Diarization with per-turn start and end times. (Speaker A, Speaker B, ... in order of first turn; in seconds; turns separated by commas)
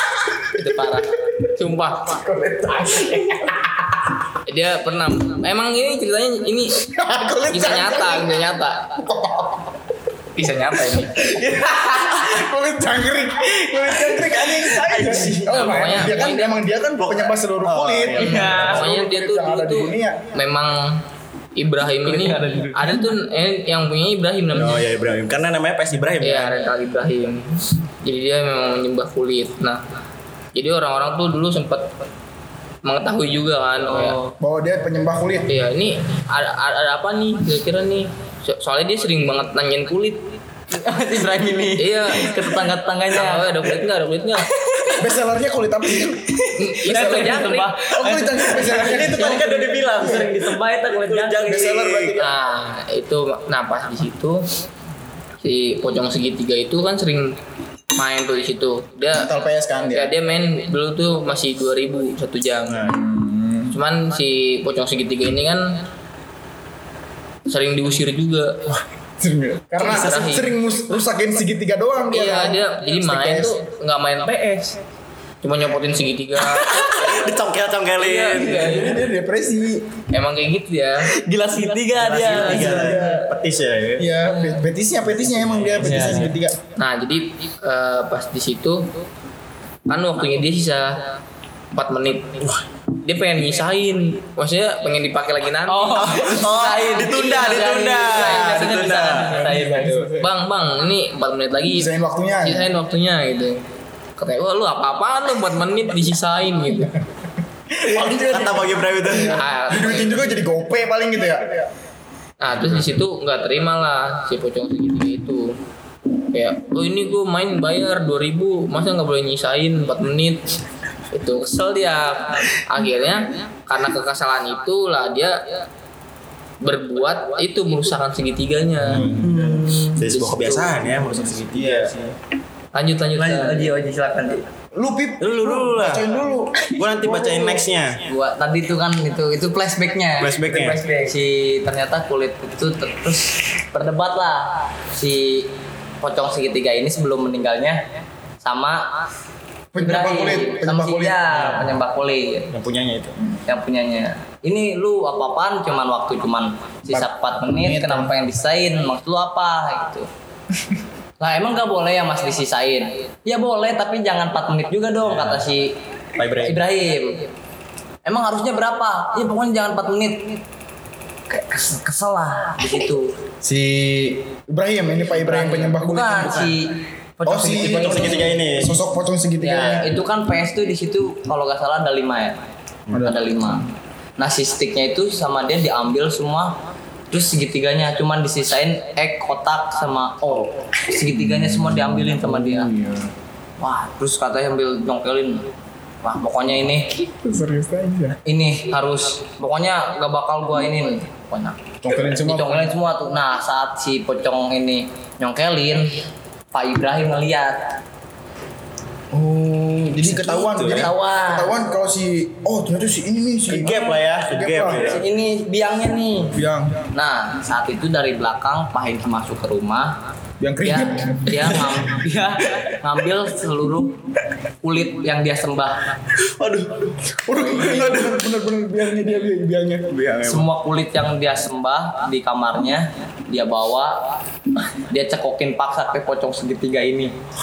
Speaker A: 0.6-2.2, Speaker B: 2.1-4.0, Speaker A: 4.5-6.9, Speaker B: 6.9-9.7, Speaker A: 7.5-9.0, Speaker A: 10.4-11.1, Speaker B: 11.3-20.3, Speaker C: 14.6-16.0, Speaker A: 15.5-16.6, Speaker C: 17.0-18.8, Speaker D: 18.2-18.8, Speaker A: 18.2-21.0, Speaker A: 21.6-24.9, Speaker D: 22.0-23.1, Speaker C: 24.5-26.6, Speaker A: 26.2-29.8, Speaker A: 30.6-31.9, Speaker A: 32.8-34.2, Speaker D: 33.9-34.3, Speaker B: 34.4-35.5, Speaker A: 35.5-40.3, Speaker D: 40.7-43.8, Speaker A: 41.8-44.5, Speaker D: 44.5-45.0, Speaker B: 45.0-46.4, Speaker D: 46.0-51.7, Speaker A: 46.6-47.8, Speaker B: 47.9-50.3, Speaker C: 48.6-52.2, Speaker B: 51.5-52.3, Speaker A: 52.2-54.5, Speaker A: 55.4-57.4, Speaker A: 58.0-59.3, Speaker B: 59.1-60.1, Speaker A: 59.9-62.9, Speaker C: 62.7-62.9, Speaker B: 62.8-63.8, Speaker A: 63.7-65.8, Speaker A: 67.5-68.6, Speaker B: 69.2-73.6, Speaker A: 69.8-70.6, Speaker C: 69.8-70.2, Speaker A: 72.1-74.8, Speaker A: 75.4-77.3, Speaker C: 76.5-78.9, Speaker A: 78.0-79.0, Speaker B: 78.4-79.9, Speaker A: 80.1-81.1, Speaker D: 81.1-83.0, Speaker C: 82.0-84.1, Speaker B: 82.3-83.3, Speaker B: 84.0-86.6, Speaker C: 85.4-86.3, Speaker D: 85.8-86.3, Speaker A: 86.8-88.9, Speaker A: 89.9-91.0, Speaker A: 91.7-92.3, Speaker A: 93.0-96.1, Speaker D: 95.7-100.3, Speaker C: 96.0-99.6, Speaker A: 97.9-101.9, Speaker B: 99.8-100.0, Speaker B: 101.7-102.7, Speaker A: 102.4-103.6, Speaker A: 104.2-106.9, Speaker B: 107.7-111.7, Speaker C: 107.8-109.4, Speaker A: 109.2-110.2, Speaker A: 112.4-115.6, Speaker A: 116.3-120.4, Speaker A: 121.1-125.6, Speaker A: 126.6-129.0, Speaker C: 128.8-131.9, Speaker B: 129.0-129.7, Speaker D: 129.2-130.0, Speaker A: 130.1-130.8, Speaker B: 131.1-132.1, Speaker A: 132.7-133.7, Speaker D: 133.2-134.4, Speaker B: 134.8-137.6, Speaker C: 135.2-136.2, Speaker C: 136.7-138.0, Speaker D: 138.1-145.5, Speaker C: 140.2-140.8, Speaker D: 146.0-147.8, Speaker D: 148.4-148.9, Speaker B: 149.7-151.4, Speaker D: 149.8-152.5, Speaker C: 151.3-151.8, Speaker C: 152.5-153.2, Speaker D: 153.5-160.1, Speaker B: 156.9-158.1, Speaker D: 161.2-165.7, Speaker C: 165.1-165.4, Speaker C: 166.2-166.6, Speaker D: 166.4-167.3, Speaker D: 168.1-170.4, Speaker D: 171.3-173.1, Speaker B: 173.4-176.5, Speaker D: 175.1-178.3, Speaker B: 177.2-180.0, Speaker C: 177.7-178.8, Speaker D: 179.4-182.4, Speaker B: 182.9-183.6, Speaker D: 183.0-186.5, Speaker D: 187.1-192.7, Speaker B: 191.1-193.1, Speaker D: 193.6-195.5, Speaker D: 196.0-196.9, Speaker B: 197.0-198.2, Speaker D: 198.2-205.9, Speaker B: 201.8-202.7, Speaker D: 206.5-207.7, Speaker B: 209.1-215.0, Speaker D: 210.1-211.6, Speaker C: 210.4-210.9, Speaker C: 213.5-215.0, Speaker D: 214.8-216.4, Speaker B: 216.3-216.8, Speaker D: 216.9-219.9, Speaker B: 220.4-221.8, Speaker D: 220.6-224.0, Speaker D: 224.6-225.9, Speaker C: 226.2-228.3, Speaker B: 227.2-229.9, Speaker C: 229.9-230.5, Speaker D: 230.2-234.0, Speaker D: 234.7-237.1